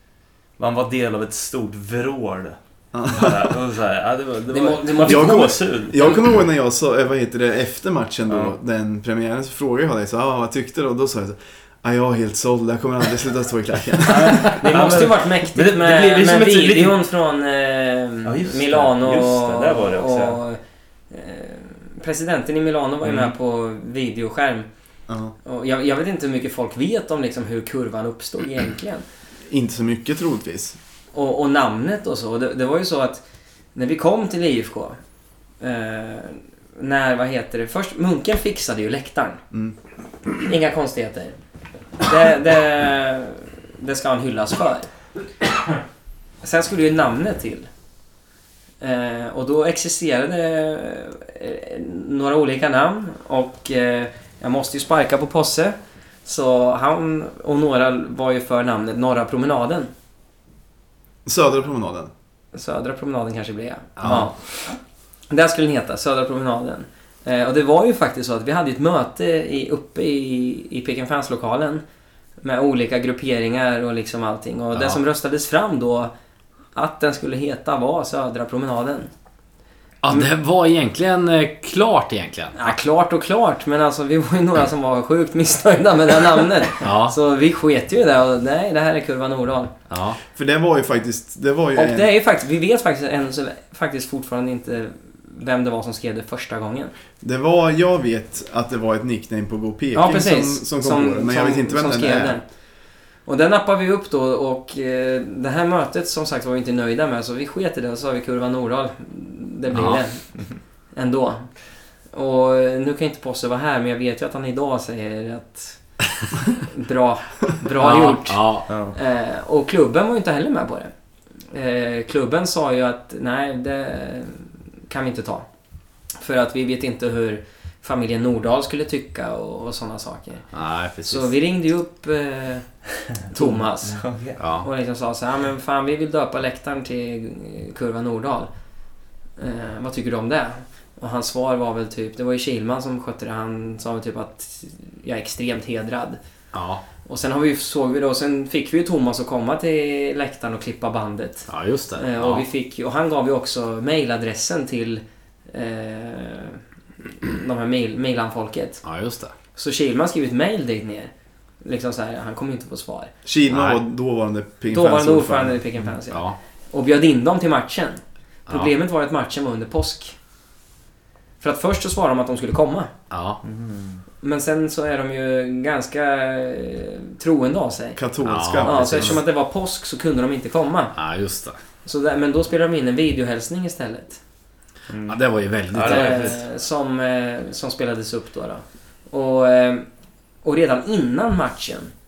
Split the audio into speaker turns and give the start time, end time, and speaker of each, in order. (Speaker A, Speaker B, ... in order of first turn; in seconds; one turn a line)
Speaker A: 0.6-6.3
Speaker B: 2.9-3.5
Speaker C: 4.5-5.5
Speaker B: 5.0-14.5
Speaker A: 8.3-8.5
Speaker A: 14.1-17.0
Speaker C: 14.3-20.6
Speaker A: 18.2-20.4
Speaker C: 21.1-24.7
Speaker A: 23.0-23.3
Speaker B: 25.1-25.4
Speaker C: 25.4-29.0
Speaker B: 29.5-30.8
Speaker C: 31.1-35.0
Speaker C: 35.6-39.4
Speaker B: 39.5-39.8
Speaker C: 40.4-41.4
Speaker C: 42.0-44.9
Speaker C: 46.4-47.7
Speaker C: 48.8-59.9
Speaker B: 61.3-62.1
Speaker C: 62.5-71.8
Speaker D: 64.0-64.3
Speaker C: 72.4-76.1
Speaker D: 74.7-75.0
Speaker C: 76.7-79.1
Speaker D: 80.0-82.7
Speaker C: 82.6-89.7
Speaker D: 86.8-87.2
Speaker D: 89.9-90.2
Speaker B: 90.3-92.1
Speaker C: 91.8-96.9
Speaker B: 97.2-102.4
Speaker C: 99.9-102.6
Speaker C: 103.2-116.0
Speaker D: 109.7-110.0
Speaker C: 116.6-120.9
Speaker D: 117.8-118.7
Speaker A: 118.7-119.0
Speaker C: 121.5-125.5
Speaker C: 126.2-130.5
Speaker D: 130.5-131.3
Speaker C: 131.0-138.5
Speaker A: 133.3-134.4
Speaker D: 134.4-134.7
Speaker C: 139.4-146.2
Speaker D: 146.5-146.8
Speaker C: 147.1-156.6
Speaker D: 151.5-152.4
Speaker C: 157.2-158.8
Speaker D: 158.8-159.3
Speaker C: 159.6-163.1
Speaker B: 163.2-165.6
Speaker D: 163.5-163.8
Speaker C: 164.7-170.2
Speaker D: 166.1-166.4
Speaker C: 171.4-172.9
Speaker D: 173.1-173.4
Speaker A: 173.4-174.0
Speaker C: 174.2-178.0
Speaker B: 178.0-179.2
Speaker D: 178.2-179.2
Speaker C: 178.6-181.0
Speaker D: 180.9-181.6
Speaker C: 181.8-184.2
Speaker A: 184.9-186.4
Speaker D: 185.1-186.4
Speaker C: 185.8-189.9
Speaker C: 190.4-191.9